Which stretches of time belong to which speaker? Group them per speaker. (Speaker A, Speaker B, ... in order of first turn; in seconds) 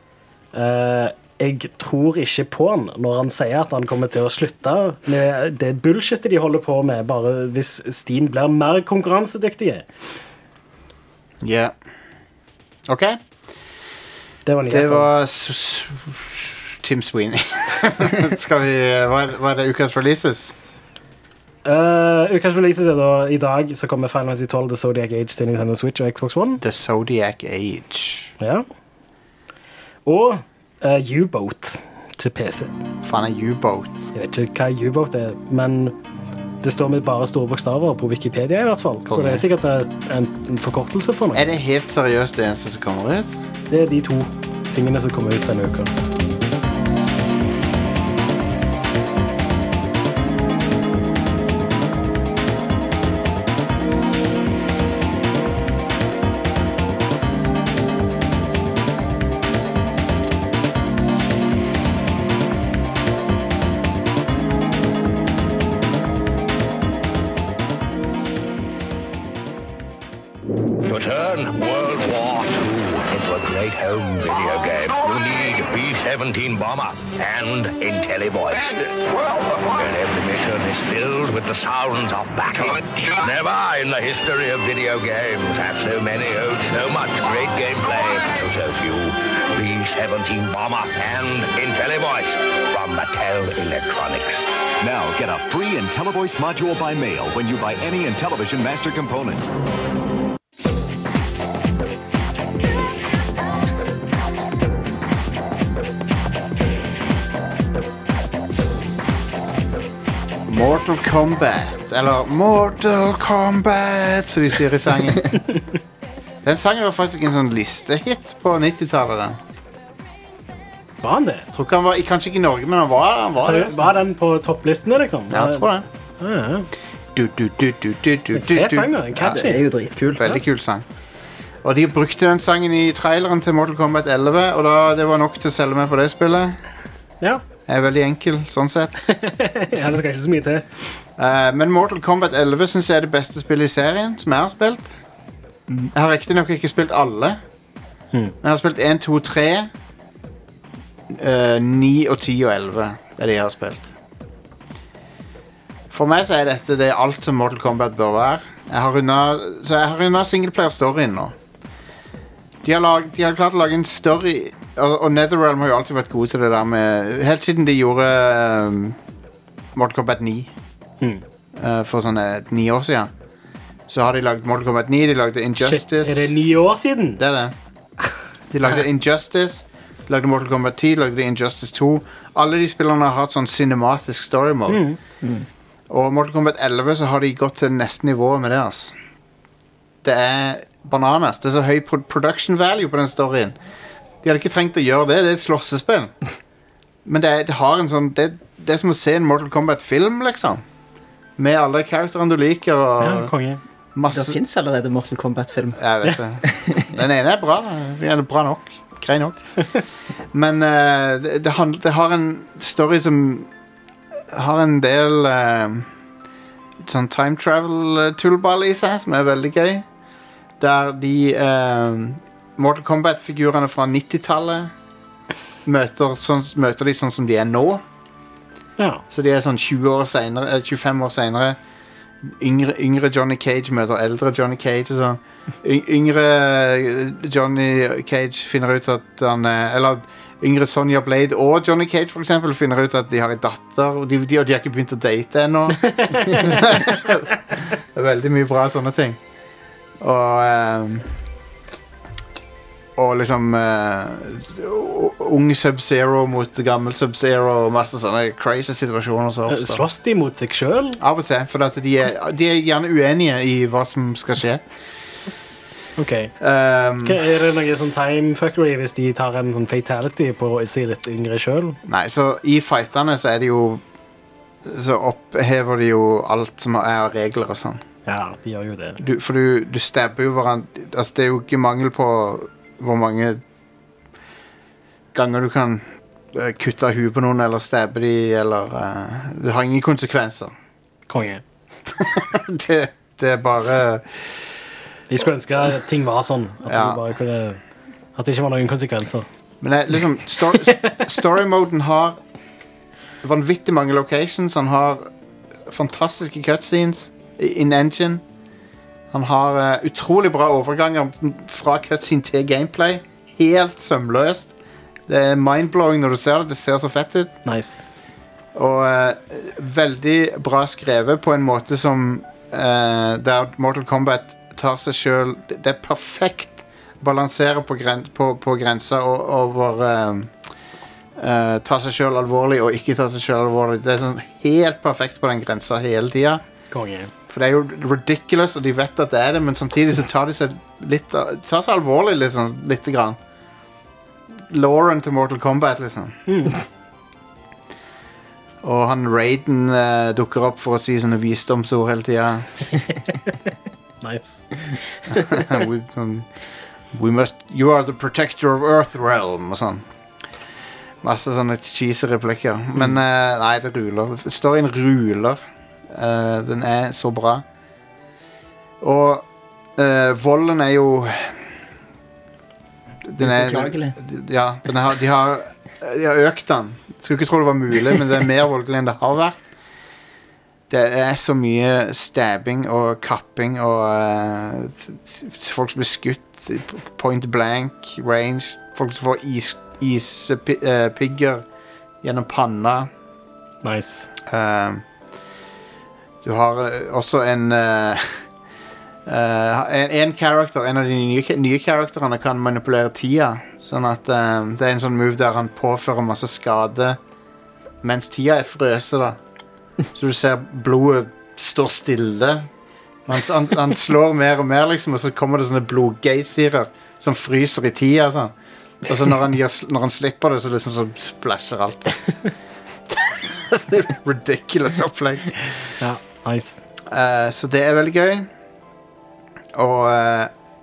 Speaker A: 0.5-9.8, 14.4-15.1, 21.6-26.6, 28.4-28.6, 30.1-32.7, 34.1-36.0, 36.6-41.4, 43.7-45.9, 121.0-121.5, 123.4-126.7, 128.3-129.6, 139.1-140.7, 175.6-177.2, 184.7-185.0, 203.0-203.6, 228.8-229.0, 245.8-246.7, 259.5-261.0, 266.0-266.3, 267.0-271.8, 278.1-279.0, 291.1-291.4, 295.1-297.6, 298.1-299.2, 300.6-301.0, 317.4-317.8, 336.7-337.1, 346.3-346.6, 354.0-355.5, 393.6-394.1, 425.8-426.6
Speaker B: 11.4-11.7, 12.9-13.2, 14.7-20.5, 26.6-28.3, 33.0-34.1, 39.1-39.4, 41.3-43.4, 110.5-115.3, 116.4-119.4, 121.5-123.9, 125.3-125.8, 127.1-129.4, 130.2-130.8, 131.6-136.6, 137.7-138.9, 141.2-144.9, 145.9-147.4, 148.4-149.7, 151.1-153.9, 155.9-161.3, 162.6-169.0, 169.7-170.5, 171.6-173.1, 173.9-176.3, 177.2-177.5, 178.5-184.8, 185.9-189.0, 190.0-193.6, 194.2-196.1, 197.0-200.6, 201.4-203.3, 203.9-204.4, 205.8-209.4, 210.3-213.5, 214.3-215.9, 216.8-219.8, 220.6-224.7, 225.6-227.8, 229.1-231.6, 232.2-249.2, 250.0-251.1, 252.9-259.8, 261.0-264.6, 266.4-267.2, 271.8-273.8, 274.6-277.8, 279.0-283.4, 285.1-290.5, 291.9-294.2, 296.6-297.0, 299.6-302.2, 303.2-305.1, 305.7-308.2, 309.1-314.5, 315.1-317.4, 318.5-330.3, 331.2-336.4, 337.3-343.2, 344.5-346.2, 348.6-352.6, 355.1-356.3, 356.9-359.8, 361.0-367.4, 368.8-371.4, 373.0-379.4, 380.7-391.4, 392.0-392.9, 394.3-394.8, 396.2-398.2, 399.1-407.0, 407.8-409.2, 409.9-412.5, 413.1-418.3, 418.8-421.9, 422.9-425.7, 426.9-428.3, 429.5-430.3
Speaker C: 70.8-94.5
Speaker D: 94.8-99.5
Speaker E: 129.2-130.2, 204.1-205.8, 206.4-206.8, 373.2-373.9